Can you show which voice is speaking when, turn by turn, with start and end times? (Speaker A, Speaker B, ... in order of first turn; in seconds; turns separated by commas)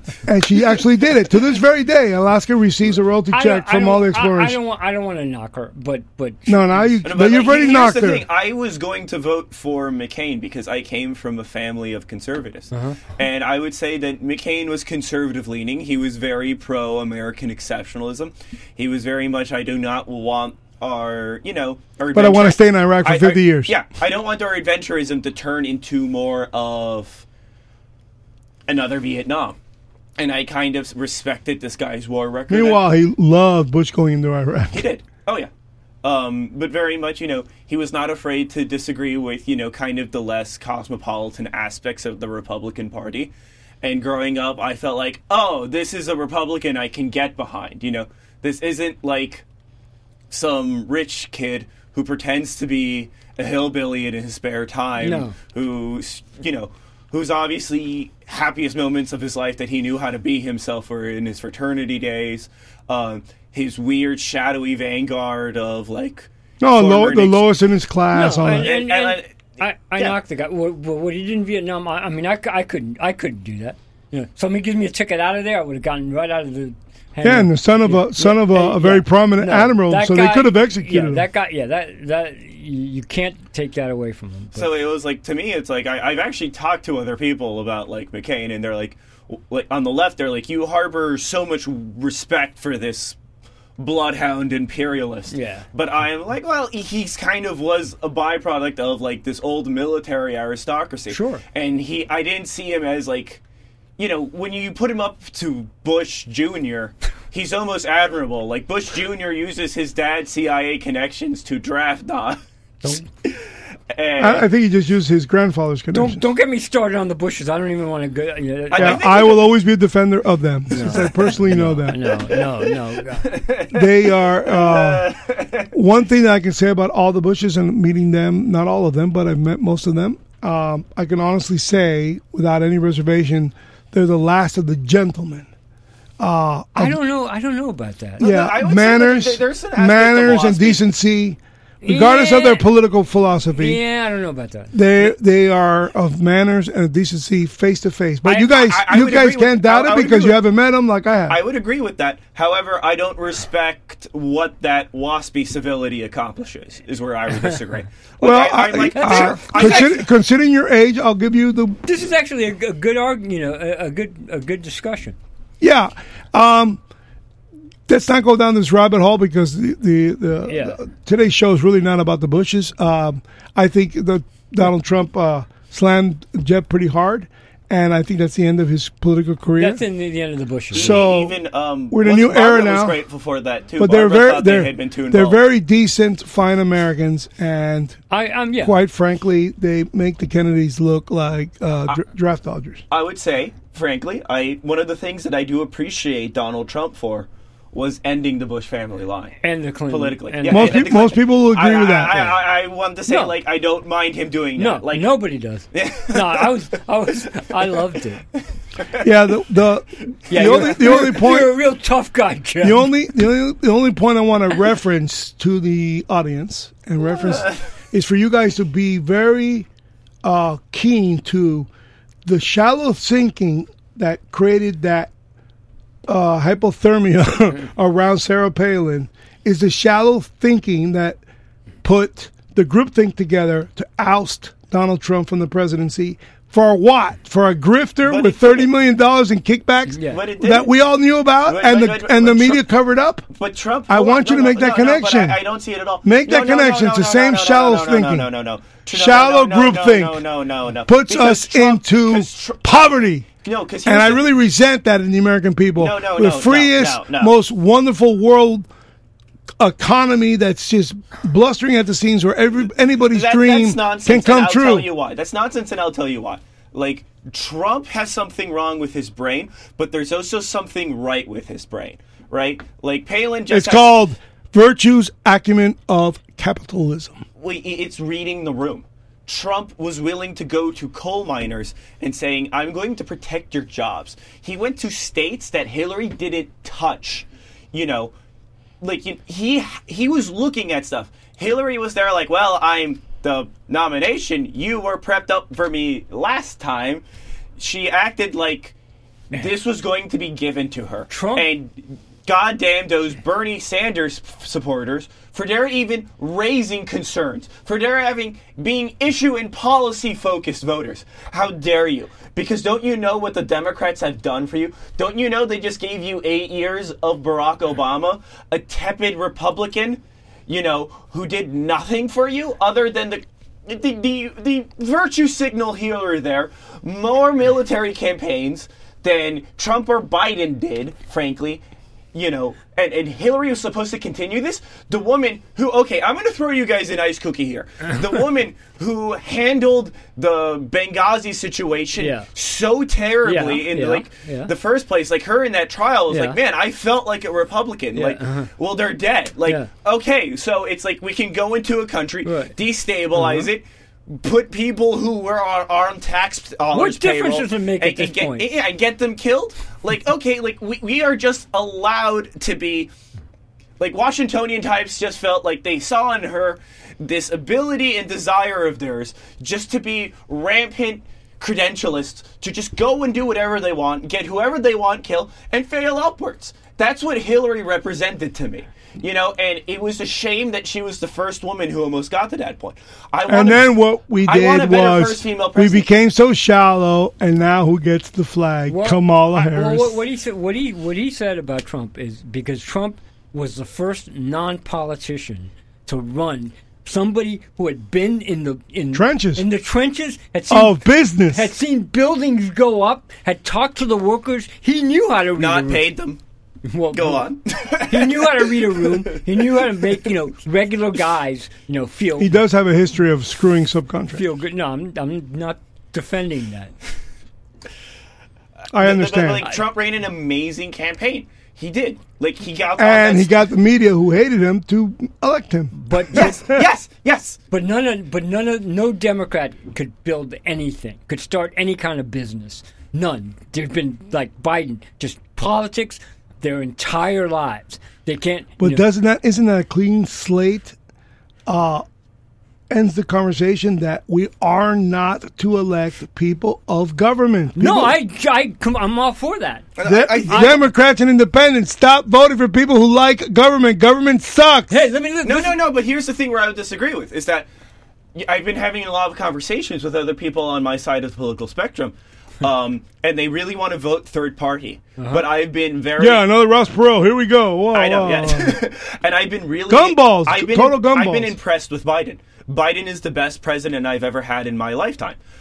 Speaker A: 0.2-4.6, Speaker B: 3.3-6.9, Speaker A: 6.5-8.2, Speaker C: 7.0-27.2, Speaker B: 12.7-13.0, Speaker A: 22.1-23.7, Speaker C: 28.7-29.6, Speaker C: 30.2-32.8, Speaker A: 32.5-34.8, Speaker C: 34.7-35.5, Speaker C: 36.0-49.4, Speaker C: 50.3-67.5, Speaker B: 55.0-55.3, Speaker A: 66.6-68.7, Speaker B: 68.1-84.7, Speaker C: 68.5-70.2, Speaker A: 77.2-81.2, Speaker C: 84.5-93.2, Speaker C: 93.8-103.4, Speaker B: 95.3-95.6, Speaker B: 101.1-101.4, Speaker C: 104.0-112.4, Speaker C: 113.9-114.5, Speaker A: 114.2-116.2, Speaker B: 115.9-119.0, Speaker C: 118.7-119.6, Speaker A: 118.8-122.0, Speaker B: 120.7-123.4, Speaker C: 122.1-125.7, Speaker A: 123.7-125.1, Speaker A: 125.7-135.5, Speaker A: 136.2-137.0, Speaker B: 136.7-138.2, Speaker C: 138.2-140.8, Speaker A: 138.2-143.8, Speaker B: 141.8-142.7, Speaker B: 143.6-144.7, Speaker A: 144.7-151.4, Speaker C: 148.3-150.4, Speaker C: 151.3-160.1, Speaker A: 158.2-161.8, Speaker B: 158.9-159.9, Speaker B: 161.8-165.2, Speaker A: 165.6-166.8, Speaker A: 167.9-179.8, Speaker B: 170.5-170.8, Speaker B: 179.6-181.0, Speaker C: 180.7-185.4, Speaker A: 180.7-181.4, Speaker A: 181.9-183.0, Speaker A: 183.8-188.0, Speaker B: 188.1-188.8, Speaker A: 188.6-192.8, Speaker C: 192.9-205.2, Speaker B: 199.4-200.9, Speaker A: 200.5-202.3, Speaker B: 203.1-203.3, Speaker B: 204.6-208.2, Speaker C: 205.7-207.8, Speaker A: 209.0-211.5, Speaker B: 210.3-212.9, Speaker A: 212.6-219.7, Speaker A: 220.2-221.7, Speaker A: 222.2-225.1, Speaker A: 226.1-231.2, Speaker A: 231.8-243.2, Speaker C: 238.0-238.7, Speaker B: 239.9-240.2, Speaker C: 240.0-240.7, Speaker C: 241.4-242.6, Speaker C: 243.3-254.2, Speaker A: 243.9-245.4, Speaker A: 246.0-248.3, Speaker A: 248.9-250.2, Speaker A: 250.9-253.2, Speaker A: 253.8-258.7, Speaker C: 255.8-257.3, Speaker A: 259.6-264.9, Speaker C: 263.1-274.0, Speaker A: 273.5-277.2, Speaker C: 277.4-288.1, Speaker C: 288.8-297.0, Speaker C: 297.6-298.7, Speaker C: 299.3-331.6, Speaker B: 301.1-301.5, Speaker C: 332.1-362.9, Speaker B: 342.0-342.3, Speaker B: 343.2-344.5, Speaker B: 346.1-346.4, Speaker B: 347.9-348.5, Speaker B: 352.2-352.5, Speaker B: 353.1-353.5, Speaker B: 356.7-358.5, Speaker C: 363.8-383.7, Speaker A: 383.3-390.0, Speaker C: 384.2-385.9, Speaker B: 388.7-405.9, Speaker A: 398.9-399.4, Speaker A: 400.5-401.5, Speaker C: 405.3-406.2, Speaker B: 406.6-407.2, Speaker C: 406.9-409.5, Speaker B: 407.9-412.3, Speaker A: 412.2-414.2, Speaker B: 414.1-416.7, Speaker A: 418.7-419.4, Speaker C: 418.8-423.4, Speaker A: 422.8-426.6, Speaker B: 425.8-426.3, Speaker C: 426.1-427.4, Speaker B: 427.5-438.8, Speaker A: 438.6-440.8, Speaker A: 441.5-441.8, Speaker A: 442.7-447.9, Speaker B: 447.6-449.7, Speaker C: 449.8-450.6, Speaker A: 449.8-454.7, Speaker B: 450.3-450.6, Speaker B: 454.7-455.6, Speaker C: 455.2-457.5, Speaker C: 458.1-466.2, Speaker B: 465.0-465.2, Speaker A: 466.0-468.6, Speaker C: 467.7-475.2, Speaker A: 469.7-471.3